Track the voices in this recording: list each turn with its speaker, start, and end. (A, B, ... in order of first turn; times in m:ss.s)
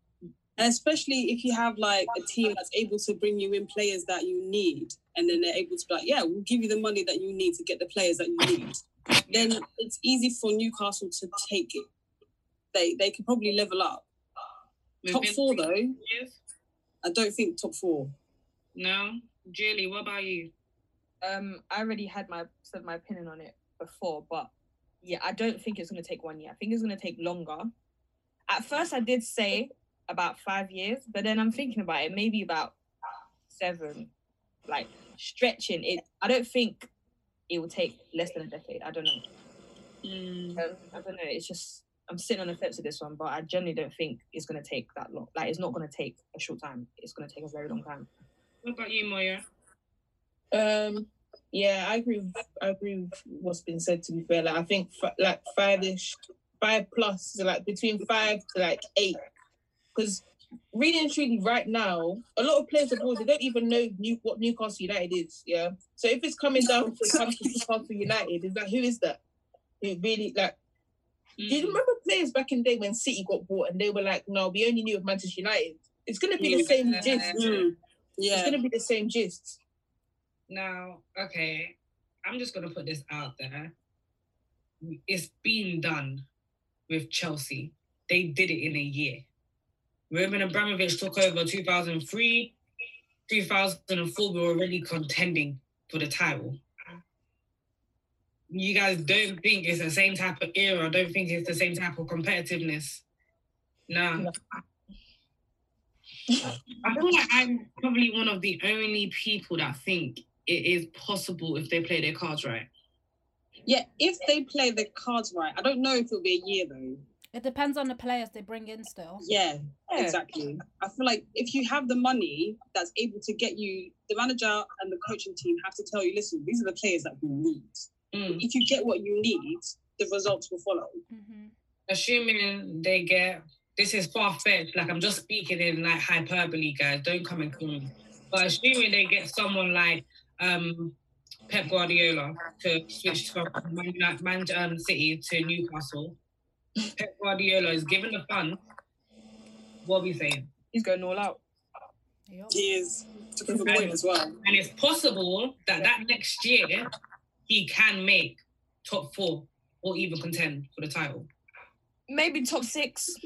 0:00.6-0:11.8 A
0:09.3-0:09.5 B
0:12.7-0:14.0 A
0:15.0-0:16.4 B
0:15.1-0:16.0 A
0:17.0-0:18.1 A
0:18.7-0:20.5 B
0:21.2-0:27.7 C
0:28.5-0:32.8 C
0:33.5-0:34.1 C
0:34.7-0:36.9 C
0:37.5-0:39.2 C
0:40.0-0:40.6 B
0:40.6-0:48.1 C
0:48.6-0:49.4 B
0:50.5-0:59.2 D
0:59.9-1:09.2 D
1:09.8-1:10.5 D
1:11.4-1:11.8 B
1:11.5-1:17.3 D
1:16.4-1:16.7 A
1:16.5-1:17.7 B
1:17.3-1:18.6 A
1:18.3-1:19.6 D
1:20.5-1:23.7 B
1:24.8-1:26.2 B
1:26.9-1:29.2 B
1:30.1-1:32.6 B
1:33.3-1:36.6 B
1:38.5-1:43.0 B
1:43.9-1:44.3 B
1:46.8-1:52.7 B
1:53.6-1:57.0 A
1:57.3-1:59.2 E
1:59.2-2:11.0 A
1:59.9-2:00.2 C
2:08.1-2:08.4 B
2:11.1-2:11.5 E
2:11.9-2:20.9 B
2:21.5-2:26.2 B
2:27.0-2:28.6 B
2:29.8-2:30.5 B
2:30.7-2:31.4 C
2:32.3-2:32.6 E
2:32.5-2:34.4 A
2:33.6-2:36.9 B
2:37.5-2:41.3 B
2:42.1-2:43.2 C